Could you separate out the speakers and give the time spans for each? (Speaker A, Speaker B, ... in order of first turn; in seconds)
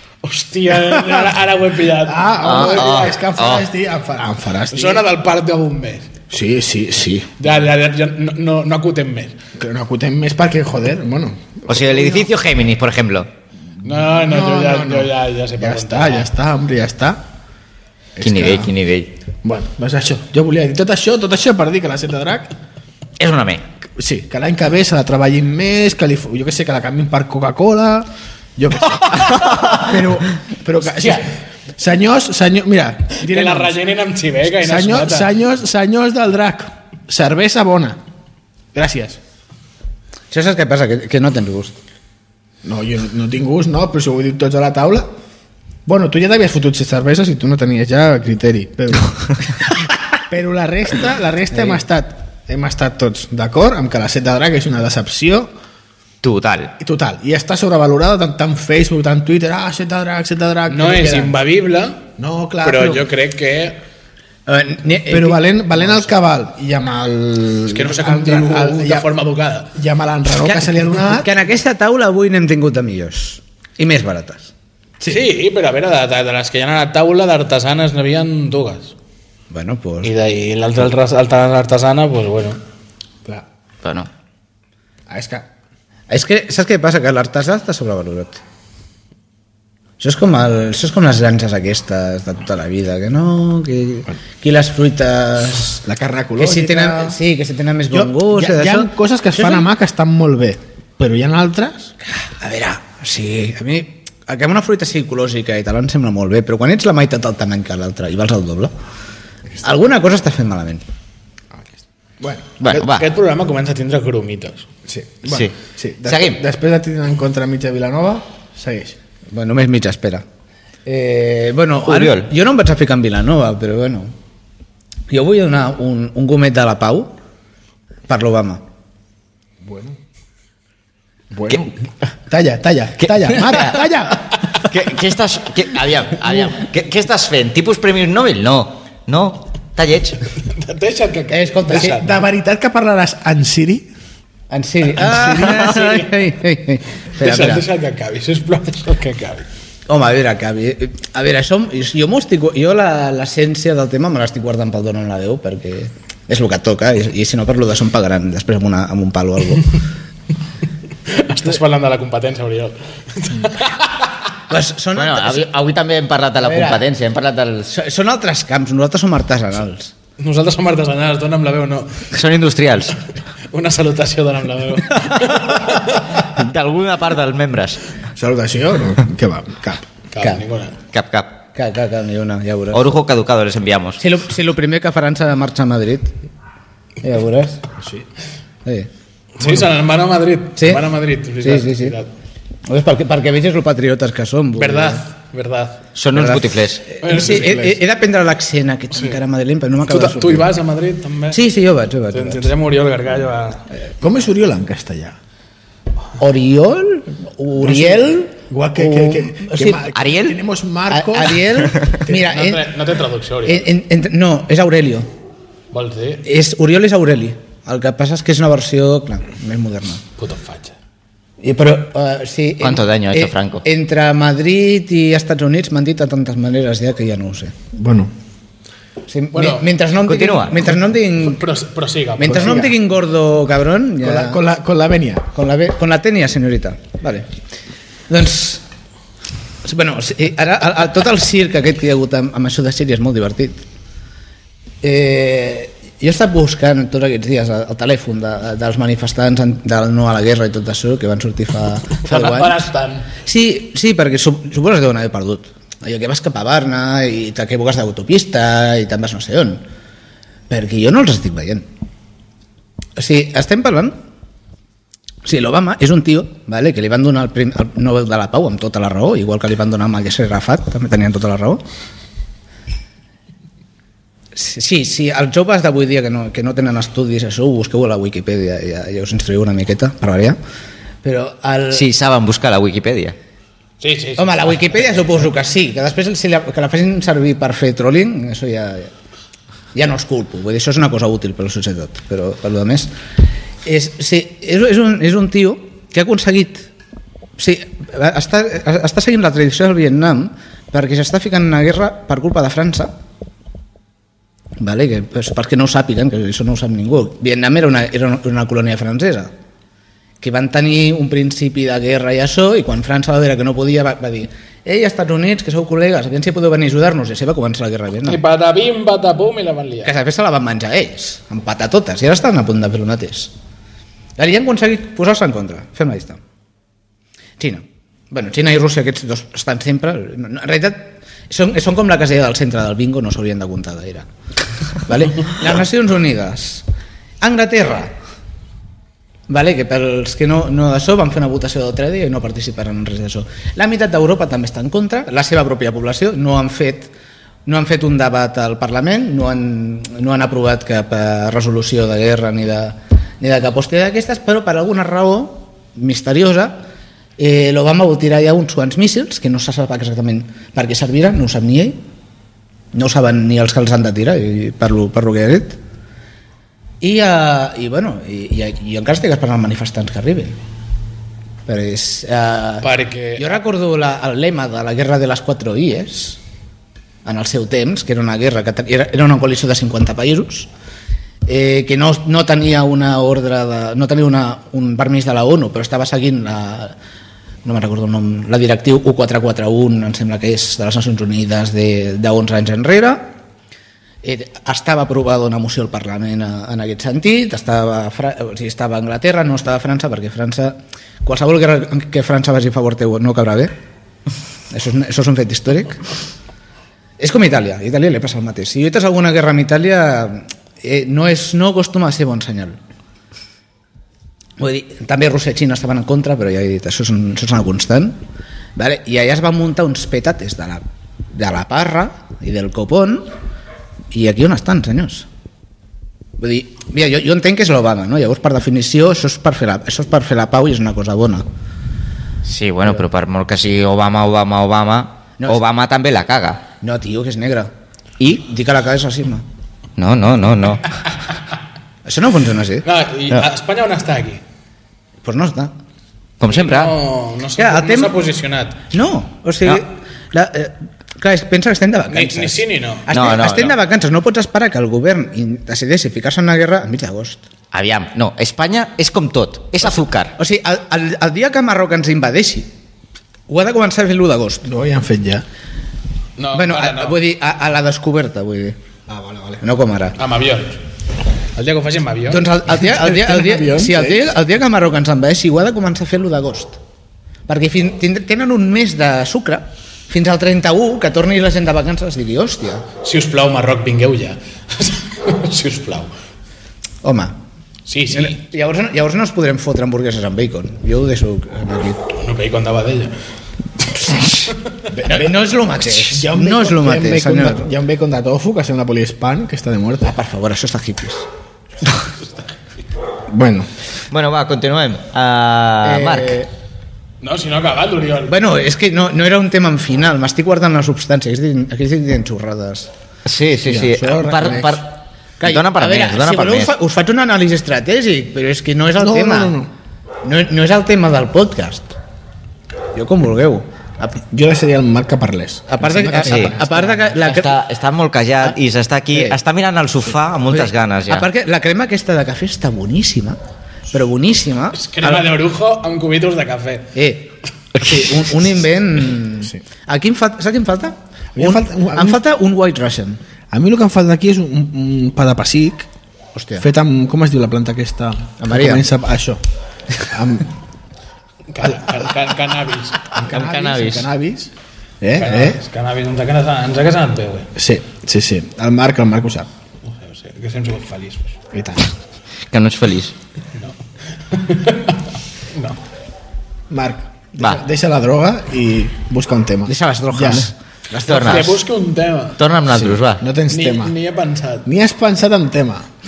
Speaker A: 0.2-3.1, 4.7-6.1, 7.4-9.4, 13.8-16.3, 31.0-31.2, 33.2-35.3, 60.7-62.1, 62.6-63.8, 67.7-69.7, 75.1-78.9, 80.0-82.6, 112.7-114.7, 140.4-142.1, 145.3-146.1, 147.2-149.4, 161.1-164.1, 170.2-172.1, 173.5-176.2, 180.1-180.8, 189.4-192.1, 194.6-195.8, 197.0-197.6, 199.9-201.4, 202.1-203.7, 212.1-213.7, 215.7-216.2, 220.2-220.7, 229.3-229.7, 231.2-232.7, 252.0-253.1, 283.8-284.6, 318.1-319.9, 372.6-373.2, 442.6-444.2, 446.3-448.6, 451.9-452.9, 466.2-467.0, 470.0-470.6, 471.3-472.3, 482.8-485.9, 487.6-488.2, 491.9-492.9, 493.8-494.3, 507.0-508.1, 534.5-536.7, 551.3-552.9, 555.0-557.3, 559.6-561.2, 564.1-564.8, 565.3-565.6, 570.9-572.2, 573.3-574.5
Speaker B: 0.7-1.3, 1.9-5.1, 6.3-7.4, 9.6-12.3, 13.8-17.2, 18.1-18.7, 19.4-22.5, 23.9-33.8, 34.6-38.0, 38.7-39.2, 42.6-45.1, 45.9-49.7, 50.3-55.5, 56.8-61.3, 62.2-63.1, 65.1-69.1, 69.7-71.3, 75.0-75.3, 85.1-85.5, 95.8-97.2, 97.9-101.9, 112.2-112.8, 114.9-119.0, 129.6-130.0, 131.3-131.7, 132.3-134.4, 141.7-143.9, 145.0-145.8, 178.1-179.8, 197.1-197.8, 204.0-205.2, 207.6-212.2, 227.7-228.1, 232.3-232.7, 234.0-235.3, 464.4-465.2, 468.9-469.4, 472.5-474.0, 494.7-495.1, 495.7-499.9, 503.1-503.5, 513.4-514.6, 518.8-519.5, 524.1-526.9, 541.1-542.0, 543.3-545.7, 546.4-549.2, 549.8-550.3, 551.4-551.8, 552.9-555.4, 557.4-559.3, 561.3-561.7, 566.5-570.3, 572.5-573.7, 574.4-575.7
Speaker C: 2.4-3.6, 11.7-13.3, 18.2-19.1, 23.2-23.6, 56.2-56.7, 83.8-84.1, 112.6-113.1, 115.2-115.5, 116.0-116.4, 121.8-122.3, 134.6-140.2, 164.9-167.7, 172.1-173.0, 176.2-177.8, 180.9-181.4, 182.7-184.0, 195.9-196.8, 209.9-210.4, 222.6-223.6, 230.1-230.6, 281.7-283.1, 432.2-436.5, 439.8-440.7, 446.2-446.7, 452.9-453.6, 457.5-460.1, 503.9-506.2, 513.0-516.5, 526.0-526.3, 527.0-531.1, 553.0-553.9, 562.3-562.9, 570.8-571.4, 572.2-573.0
Speaker D: 40.3-41.8, 64.5-66.1, 70.4-74.5, 79.5-80.1, 86.1-88.4, 90.0-95.8, 96.4-99.7, 102.2-108.7, 109.6-110.8, 119.3-120.2, 120.8-124.1, 125.1-127.1, 128.1-128.6, 141.3-142.0, 144.5-147.6, 149.9-159.8, 164.5-165.5, 166.4-166.8, 167.7-169.9, 181.5-182.9, 184.0-186.1, 187.0-187.6, 190.6-190.8, 191.4-192.0, 192.7-195.0, 196.1-200.5, 201.3-202.5, 206.2-209.8, 210.9-212.7, 213.4-215.1, 216.2-220.0, 221.4-227.5, 229.1-231.4, 232.2-234.4, 235.3-237.3, 238.1-238.6, 239.6-243.6, 244.8-252.6, 253.2-259.6, 260.5-261.7, 263.0-264.0, 265.2-271.6, 274.3-280.4, 281.0-281.8, 284.2-288.9, 289.7-292.9, 293.6-296.7, 297.4-302.9, 304.6-309.3, 310.2-318.2, 319.8-323.3, 324.2-326.2, 327.4-334.1, 334.9-336.6, 337.2-337.9, 339.3-346.9, 347.4-356.6, 357.2-361.8, 362.7-365.6, 366.8-370.4, 371.5-376.2, 377.0-380.5, 381.3-386.8, 387.4-393.1, 394.0-403.5, 404.5-405.8, 407.0-412.6, 414.4-418.0, 418.6-423.1, 423.9-425.1, 426.2-431.2, 436.6-437.5, 438.1-439.2, 441.8-442.6, 445.0-445.5, 447.4-447.9, 448.7-457.2, 460.2-462.5, 463.3-464.4, 466.3-468.6, 469.4-470.0, 472.1-476.6, 477.3-482.6, 486.8-487.1, 487.9-491.8, 494.8-497.5, 499.8-501.1, 505.6-506.3, 508.1-512.7, 515.2-519.4, 520.0-521.7, 522.7-524.0, 525.5-527.4, 530.3-533.2, 533.7-535.0, 536.7-543.0, 546.1-546.4, 548.2-548.6, 569.5-571.3